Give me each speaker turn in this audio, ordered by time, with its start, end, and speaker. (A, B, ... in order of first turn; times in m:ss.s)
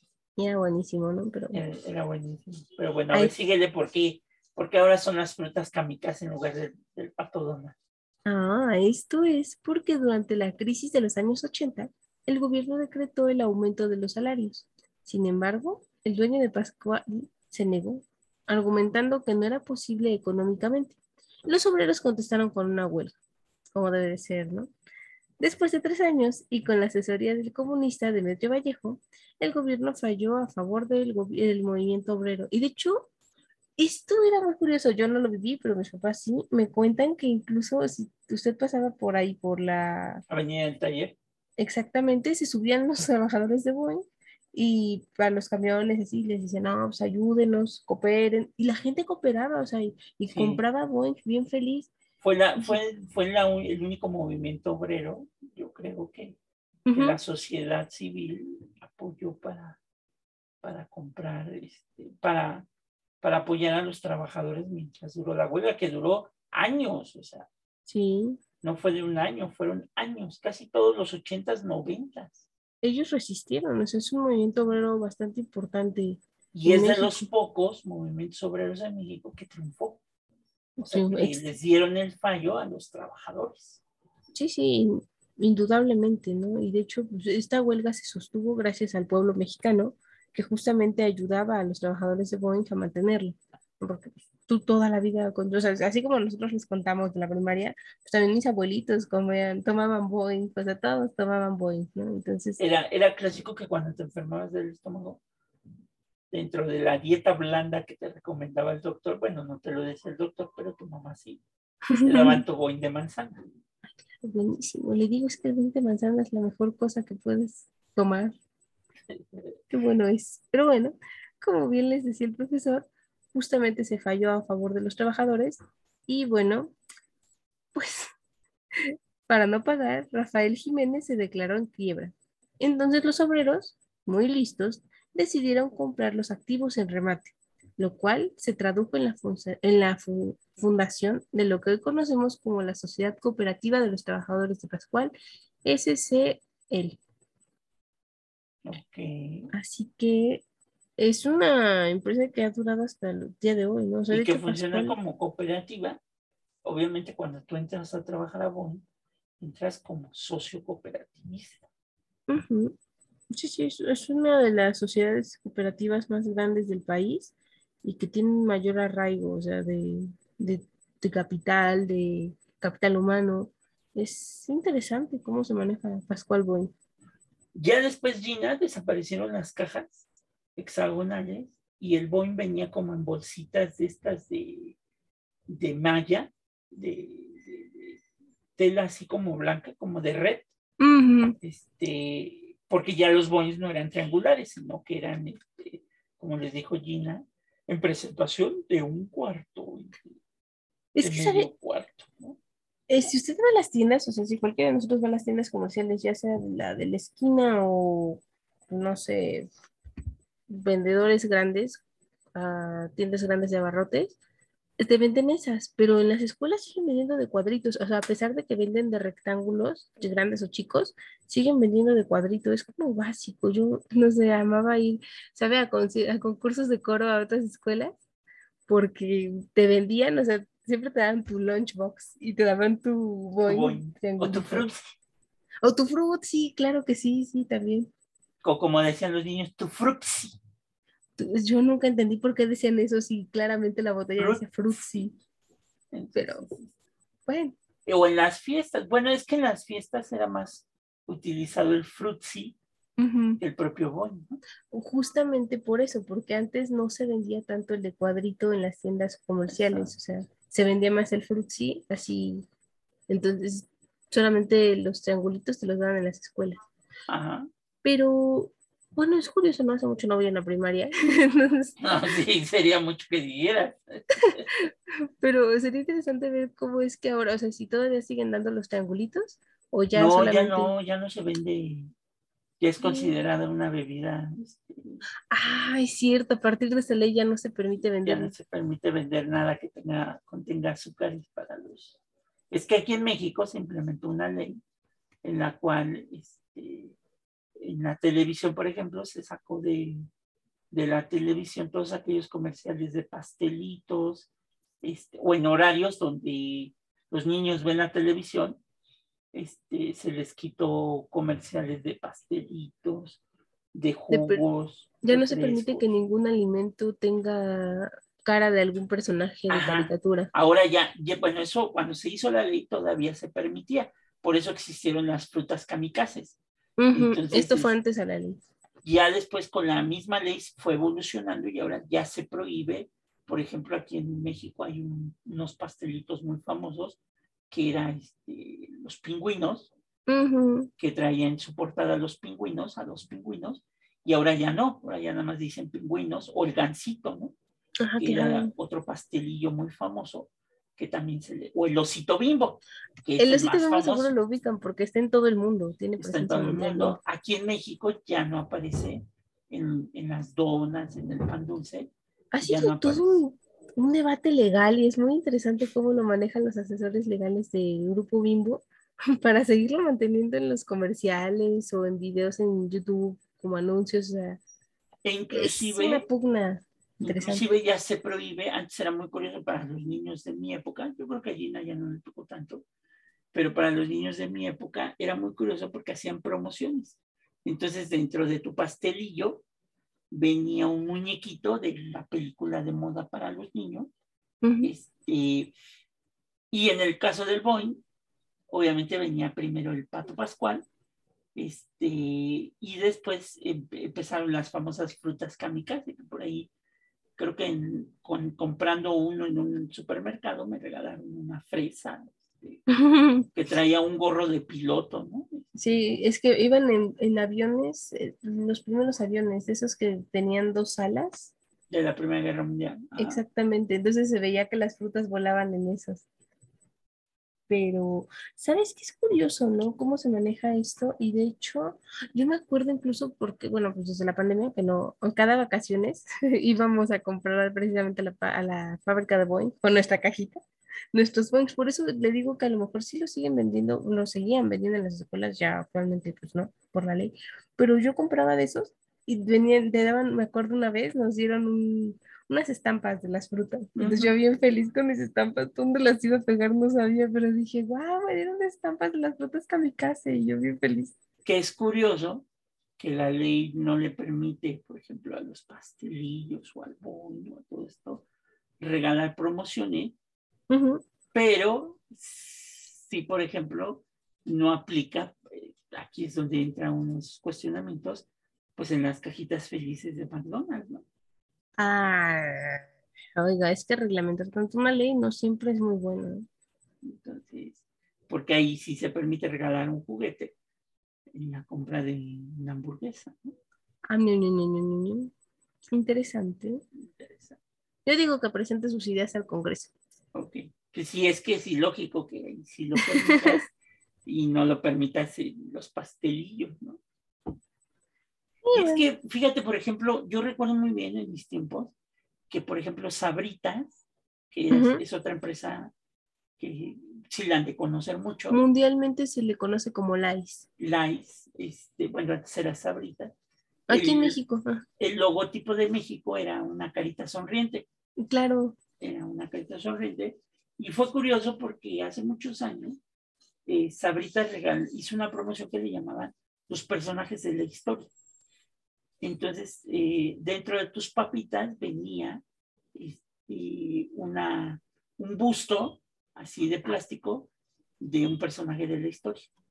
0:00.4-0:01.6 A
0:01.5-0:07.7 B
0:08.3-0:23.1 A
0:23.7-0:24.7 A
0:25.4-0:33.1 A
0:33.8-0:40.2 A
0:40.3-0:41.2 B
0:41.6-0:51.9 A
0:50.3-0:50.6 B
0:52.2-0:56.3 B
0:56.9-0:57.2 A
0:56.9-0:59.8 B
1:00.6-1:02.7 B
1:03.2-1:07.5 B
1:07.9-1:08.4 A
1:08.6-1:12.4 B
1:12.8-1:17.3 A
1:16.5-1:20.0 B
1:20.8-1:21.4 A
1:20.9-1:23.8 B
1:24.3-1:42.6 A
1:42.6-1:45.2 B
1:46.3-1:51.4 B
1:51.9-1:52.4 A
1:52.0-1:53.4 B
1:54.2-1:58.4 A
1:59.1-1:59.4 B
1:59.7-2:06.7 A
2:07.7-2:08.1 A
2:08.8-2:25.1 A
2:25.6-2:27.0 A
2:28.6-2:29.5 B
2:29.5-2:30.4 A
2:31.0-2:35.0 A
2:34.1-2:36.0 B
2:36.6-2:38.8 B
2:39.4-2:41.6 B
2:42.3-2:42.7 A
2:43.3-2:56.7 A
2:57.5-3:00.0 B
3:00.6-3:04.8 B
3:05.5-3:08.0 B
3:08.6-3:10.5 B
3:10.8-3:11.4 A
3:11.4-3:20.0 B
3:20.9-3:21.5 A
3:21.0-3:22.4 B
3:22.9-3:29.5 A
3:30.5-3:31.8 A
3:32.3-3:34.2 A
3:34.8-3:47.9 A
3:48.7-3:54.7 A
3:53.5-3:55.0 B
3:55.6-3:57.9 A
3:58.4-4:00.4 B
4:01.2-4:05.1 A
4:04.2-4:05.0 B
4:05.9-4:06.7 B
4:06.1-4:06.5 A
4:07.3-4:07.5 A
4:07.8-4:12.6 B
4:13.0-4:13.4 A
4:13.4-4:14.4 B
4:14.7-4:22.4 A
4:19.5-4:19.9 B
4:23.1-4:26.6 A
4:27.1-4:27.5 B
4:27.8-4:31.8 A
4:31.8-4:34.5 B
4:34.2-4:34.7 A
4:35.2-4:40.7 A
4:39.9-4:41.9 B
4:42.6-4:45.0 B
4:42.8-4:43.1 A
4:45.3-4:48.3 A
4:48.0-4:52.0 B
4:52.5-4:54.6 B
4:55.2-4:57.0 B
4:57.6-5:00.0 B
5:00.7-5:04.3 B
5:04.8-5:08.6 B
5:09.3-5:13.2 B
5:13.7-5:15.8 B
5:14.1-5:14.4 A
5:15.0-5:20.3 A
5:19.5-5:26.4 B
5:26.8-5:28.4 A
5:26.9-5:27.7 B
5:28.8-5:37.0 B
5:37.5-5:39.7 B
5:40.1-5:40.7 A
5:40.8-5:47.3 B
5:47.8-5:48.5 A
5:48.0-5:54.1 B
5:53.2-5:57.0 A
5:56.0-6:01.9 B
6:02.3-6:14.4 A
6:02.4-6:03.2 B
6:15.0-6:16.0 B
6:15.3-6:17.4 A
6:17.0-6:22.6 B
6:23.3-6:29.4 B
6:30.1-6:33.9 B
6:34.4-6:34.7 A
6:34.6-6:35.5 B
6:36.5-6:37.8 B
6:38.5-6:40.6 B
6:41.3-6:46.5 B
6:47.2-6:52.6 B
6:52.7-6:53.2 A
6:53.3-6:55.5 B
6:55.6-7:01.3 A
7:01.7-7:03.2 B
7:03.0-7:06.0 A
7:07.5-7:20.4 A
7:20.9-7:40.9 A
7:33.8-7:34.1 B
7:41.2-7:42.2 B
7:42.8-7:48.0 B
7:48.6-7:49.9 B
7:50.5-7:50.8 A
7:51.1-8:00.8 B
8:01.6-8:02.6 A
8:03.2-8:06.2 A
8:06.8-8:10.3 B
8:11.1-8:13.3 B
8:13.9-8:15.1 A
8:15.7-8:16.6 A
8:16.8-8:17.4 B
8:17.8-8:19.7 A
8:20.1-8:23.5 B
8:22.8-8:23.4 A
8:24.0-8:26.8 B
8:28.4-8:28.9 A
8:28.5-8:31.7 B
8:32.3-8:33.8 B
8:34.3-8:35.7 B
8:34.5-8:34.8 A
8:36.4-8:38.4 B
8:38.3-8:40.4 A
8:40.6-8:43.1 B
8:43.7-8:44.2 B
8:43.7-8:44.6 A
8:44.8-8:47.6 B
8:48.0-8:48.6 A
8:48.8-8:52.8 B
8:53.4-8:57.9 B
8:59.0-9:02.2 B
9:02.7-9:09.3 B